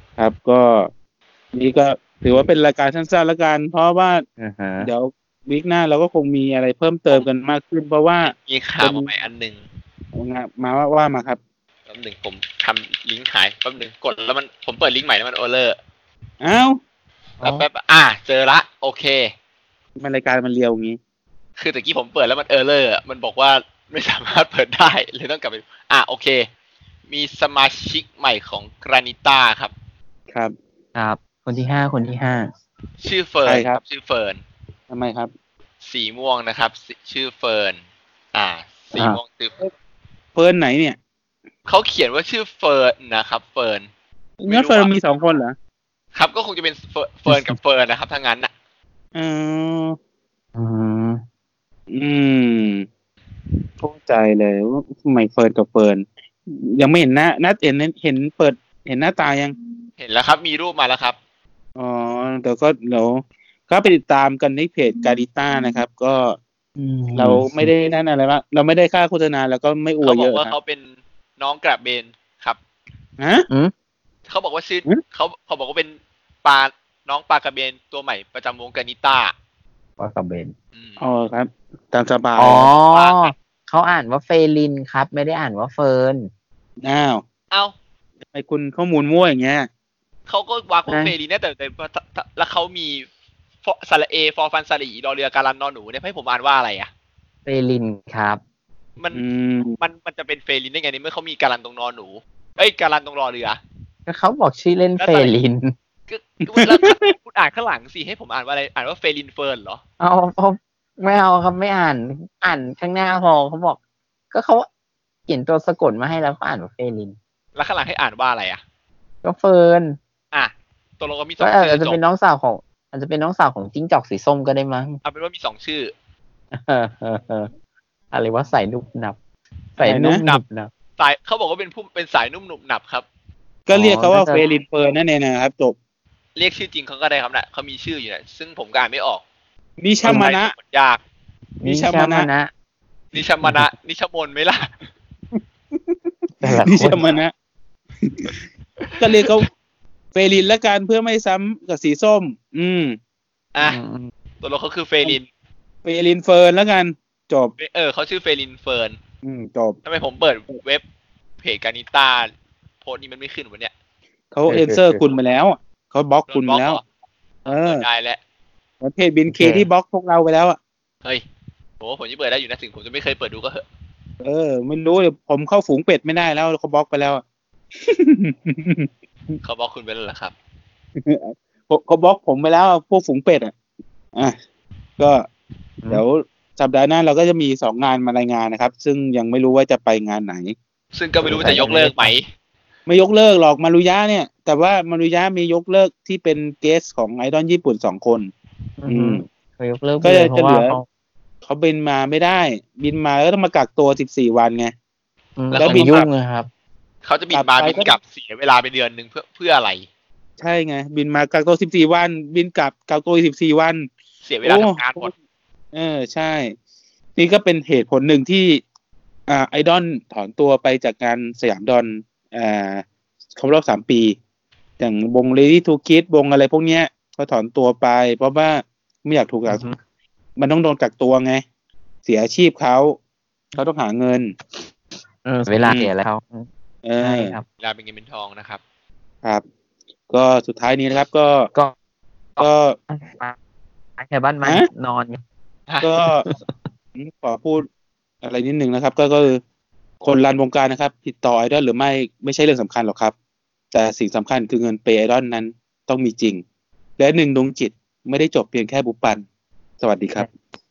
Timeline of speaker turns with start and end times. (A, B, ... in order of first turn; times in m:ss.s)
0:00.2-0:00.9 A
0:01.6-0:04.2 A
0:04.4-0:04.9 B
0:04.8-0:09.1 A
0:08.2-0:09.6 C
0:10.2-0:11.4 A
0:11.9-0:15.8 C
0:16.4-0:16.8 A
0:17.4-0:17.7 B
0:17.4-0:19.3 C
0:20.0-0:21.0 A
0:21.6-0:26.5 C
0:27.1-0:29.7 C
0:31.0-0:32.5 B
0:33.0-0:34.4 C
0:33.4-0:33.8 A
0:34.9-0:35.3 A
0:35.8-0:37.8 C
0:38.3-0:39.6 C
0:39.0-0:39.7 A
0:40.4-0:41.0 A
0:41.7-0:43.9 C
0:44.4-0:45.6 A
0:44.5-0:44.9 C
0:46.2-0:48.5 C
0:47.3-0:47.6 B
0:49.2-0:50.0 A
0:50.6-0:51.2 B
0:51.9-0:52.9 A
0:53.8-0:59.5 A
1:00.0-1:01.2 C
1:01.8-1:06.4 A
1:06.8-1:07.7 B
1:07.2-1:10.6 A
1:10.0-1:12.6 C
1:13.2-1:13.5 A
1:14.3-1:19.3 C
1:20.0-1:20.5 B
1:20.8-1:21.0 C
1:21.0-1:22.7 A
1:22.4-1:26.3 B
1:22.8-1:23.4 C
1:26.8-1:27.2 A
1:28.3-1:29.7 A
1:30.3-1:33.1 C
1:30.9-1:31.1 B
1:33.6-1:36.9 C
1:37.5-1:38.4 B
1:39.0-1:39.2 C
1:39.1-1:39.8 A
1:39.8-1:43.6 C
1:44.1-1:45.7 B
1:45.0-1:45.3 C
1:46.1-1:49.8 C
1:46.5-1:47.0 A
1:50.0-1:53.8 B
1:54.3-1:54.7 B
1:55.3-1:57.2 B
1:57.6-1:58.6 C
1:59.2-2:00.0 B
2:00.3-2:02.0 C
2:01.4-2:05.0 B
2:05.0-2:05.9 C
2:06.5-2:07.5 B
2:08.1-2:09.2 B
2:09.8-2:10.7 B
2:09.8-2:10.2 A
2:11.0-2:13.1 C
2:13.7-2:15.8 A
2:13.7-2:14.4 B
2:16.4-2:19.2 C
2:19.8-2:20.5 A
2:20.0-2:21.0 C
2:21.6-2:22.5 B
2:21.6-2:22.3 A
2:23.1-2:24.7 C
2:23.4-2:23.7 B
2:26.4-2:27.0 B
2:26.6-2:27.3 A
2:28.0-2:28.4 A
2:28.8-2:29.3 C
2:29.0-2:29.5 A
2:30.2-2:33.0 A
2:33.5-2:33.8 C
2:33.6-2:34.1 B
2:34.4-2:35.3 C
2:35.8-2:37.6 A
2:37.6-2:39.0 C
2:39.2-2:39.8 A
2:39.9-2:40.8 C
2:41.4-2:42.3 C
2:42.8-2:43.7 C
2:44.3-2:46.8 A
2:44.5-2:45.0 B
2:46.3-2:46.8 C
2:47.5-2:48.2 C
2:47.5-2:47.8 A
2:48.8-2:50.6 A
2:49.3-2:49.7 B
2:51.8-2:53.6 C
2:54.2-2:57.2 A
2:57.8-2:59.4 A
2:59.4-3:00.4 C
3:01.0-3:03.6 A
3:05.0-3:05.3 A
3:05.9-3:10.6 A
3:10.9-3:12.3 C
3:11.3-3:12.2 B
3:12.9-3:18.3 A
3:18.8-3:20.8 B
3:18.9-3:19.2 A
3:20.0-3:20.8 A
3:21.4-3:24.7 A
3:25.4-3:26.5 B
3:25.5-3:26.1 C
3:25.6-3:26.0 A
3:27.0-3:29.9 C
3:27.3-3:27.9 A
3:30.4-3:33.9 A
3:34.2-3:35.1 C
3:34.4-3:35.1 A
3:35.7-3:36.6 A
3:37.2-3:38.6 A
3:39.3-3:42.8 A
3:43.4-3:44.2 A
3:44.8-3:49.6 A
3:49.5-3:49.8 B
3:50.4-3:51.4 A
3:52.0-3:53.0 A
3:53.6-3:54.3 A
3:55.2-3:56.5 B
3:55.6-3:55.9 A
3:56.8-3:57.4 A
3:57.0-3:57.4 B
3:57.6-3:58.6 C
4:00.1-4:01.5 A
4:02.4-4:03.4 B
4:02.4-4:02.8 A
4:04.0-4:05.2 B
4:05.7-4:05.9 C
4:05.8-4:06.2 A
4:06.2-4:06.6 B
4:07.0-4:07.7 A
4:08.2-4:09.4 A
4:10.0-4:13.1 A
4:13.7-4:16.4 A
4:17.0-4:19.2 A
4:19.8-4:20.3 A